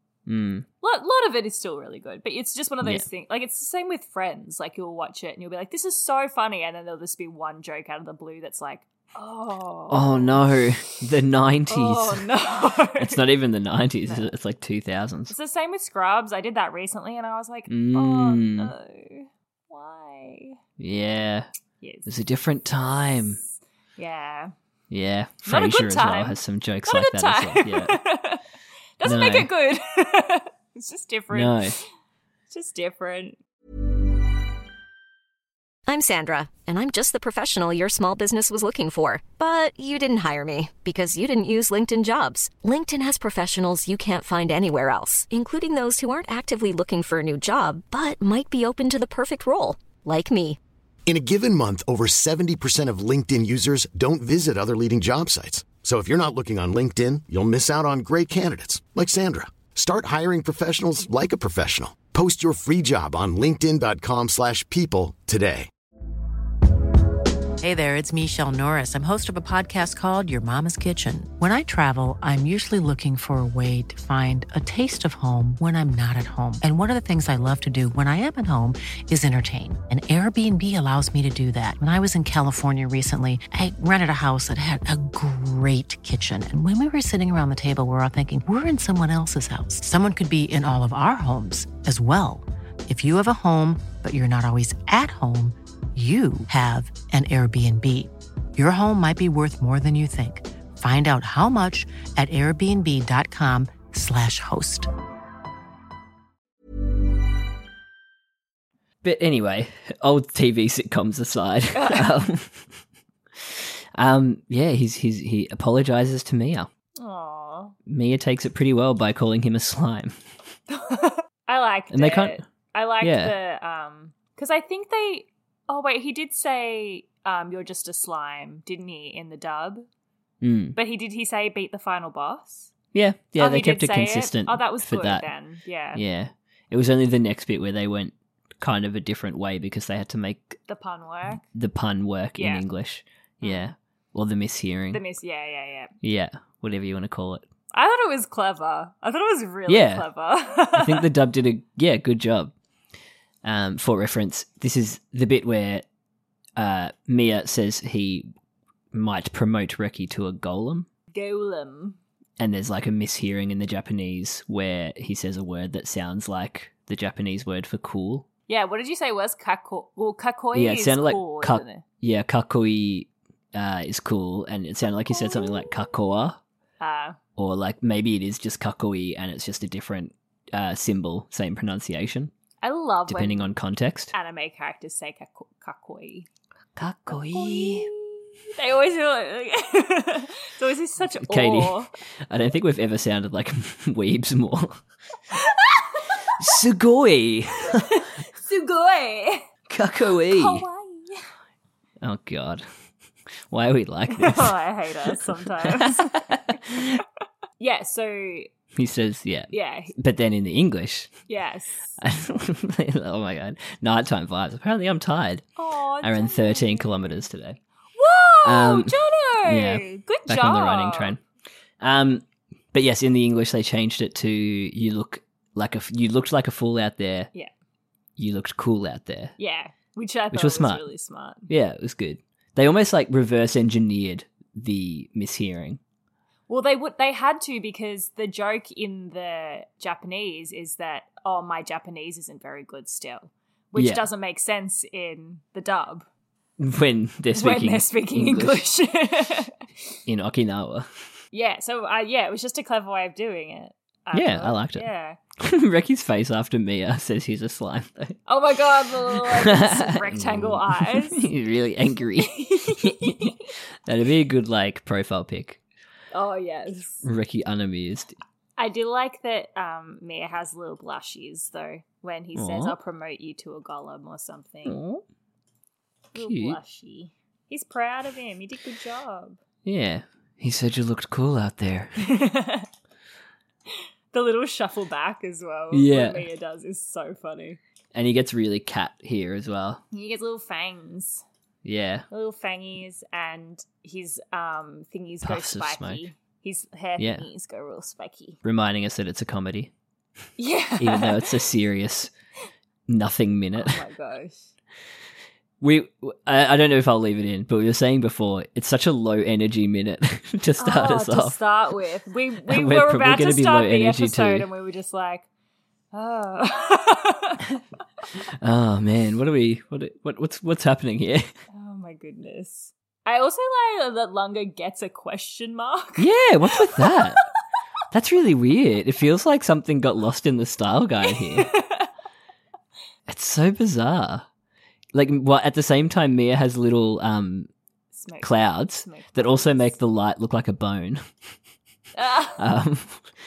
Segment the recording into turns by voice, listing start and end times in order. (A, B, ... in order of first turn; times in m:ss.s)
0:00.3-0:00.6 A
0:00.8-0:10.4 B
0:09.9-0:12.2 A
0:11.7-0:13.2 B
0:13.0-0:15.4 A
0:15.3-0:20.6 B
0:17.7-0:18.7 A
0:20.8-0:21.5 A
0:21.8-0:22.1 B
0:22.1-0:23.4 A
0:24.0-0:24.5 B
0:24.9-0:28.0 A
0:25.5-0:28.4 B
0:29.0-0:31.8 B
0:29.0-0:29.5 A
0:31.3-0:31.8 A
0:32.5-0:33.4 B
0:35.9-0:50.6 C
0:51.1-1:05.7 D
1:07.6-1:44.9 E
1:49.0-1:52.6 A
1:51.8-1:52.1 B
1:53.4-1:56.7 A
1:57.0-1:57.8 B
1:57.9-2:00.1 A
2:00.7-2:09.9 B
2:01.9-2:02.4 A
2:03.0-2:03.3 A
2:10.4-2:10.8 A
2:10.8-2:12.7 B
2:12.9-2:15.2 A
2:13.4-2:16.0 B
2:15.9-2:20.6 A
2:20.7-2:21.4 B
2:21.5-2:25.0 A
2:22.4-2:22.6 B
2:23.4-2:23.7 B
2:24.9-2:25.9 B
2:26.0-2:27.4 A
2:27.7-2:31.1 B
2:29.7-2:30.1 A
2:30.7-2:32.5 A
2:33.4-2:35.8 A
2:36.6-2:38.3 A
2:38.9-2:40.9 A
2:41.1-2:42.0 B
2:42.4-2:48.2 A
2:48.5-2:51.8 B
2:50.5-2:56.4 A
2:55.1-2:55.7 B
2:56.8-2:57.2 B
2:57.4-3:02.3 A
3:02.6-3:03.5 B
3:03.1-3:04.1 A
3:04.1-3:06.3 B
3:06.8-3:07.9 A
3:07.1-3:11.9 B
3:11.2-3:14.8 A
3:15.3-3:16.5 B
3:16.4-3:18.1 A
3:17.7-3:19.5 B
3:19.7-3:20.6 A
3:20.3-3:21.2 B
3:22.0-3:22.6 A
3:23.5-3:24.6 A
3:24.1-3:27.0 B
3:25.6-3:27.0 A
3:27.6-3:28.5 B
3:28.8-3:31.1 A
3:29.5-3:29.9 B
3:31.3-3:32.0 B
3:32.0-3:35.5 A
3:35.6-3:37.2 B
3:36.0-3:37.6 A
3:38.0-3:41.2 B
3:38.4-3:41.2 A
3:41.8-3:47.3 A
3:48.2-3:49.4 A
3:49.4-3:51.5 B
3:50.3-3:50.8 A
3:51.5-3:55.8 A
3:56.5-4:06.1 B
4:03.8-4:04.0 A
4:06.6-4:08.6 A
4:07.3-4:09.6 B
4:10.1-4:10.9 A
4:11.3-4:15.2 B
4:14.1-4:14.9 A
4:15.4-4:18.2 A
4:18.3-4:21.2 B
4:19.2-4:25.6 A
4:22.2-4:23.4 B
4:26.1-4:27.0 B
4:27.0-4:28.2 A
4:28.6-4:34.8 B
4:32.4-4:32.8 A
4:34.7-4:35.0 A
4:36.1-4:39.4 B
4:36.2-4:36.6 A
4:39.6-4:42.0 A
4:42.0-4:42.7 B
4:44.1-4:47.6 B
4:45.7-4:46.2 A
4:47.9-4:49.8 A
4:49.9-4:51.2 B
4:51.6-4:52.1 A
4:52.1-4:58.4 B
4:55.2-4:56.0 A
4:57.0-4:57.2 A
4:58.4-4:59.7 A
5:00.4-5:01.3 B
5:00.8-5:02.1 A
5:02.9-5:03.8 A
5:03.6-5:04.5 B
5:05.6-5:11.4 A
5:10.6-5:15.3 B
5:12.5-5:14.5 A
5:15.9-5:17.6 B
5:18.4-5:21.3 A
5:21.5-5:27.2 B
5:26.0-5:27.2 A
5:27.9-5:31.5 A
5:31.1-5:31.9 B
5:33.1-5:34.2 A
5:34.9-5:37.5 A
5:38.0-5:39.7 B
5:38.2-5:41.0 A
5:42.0-5:42.4 B
5:42.4-5:43.0 A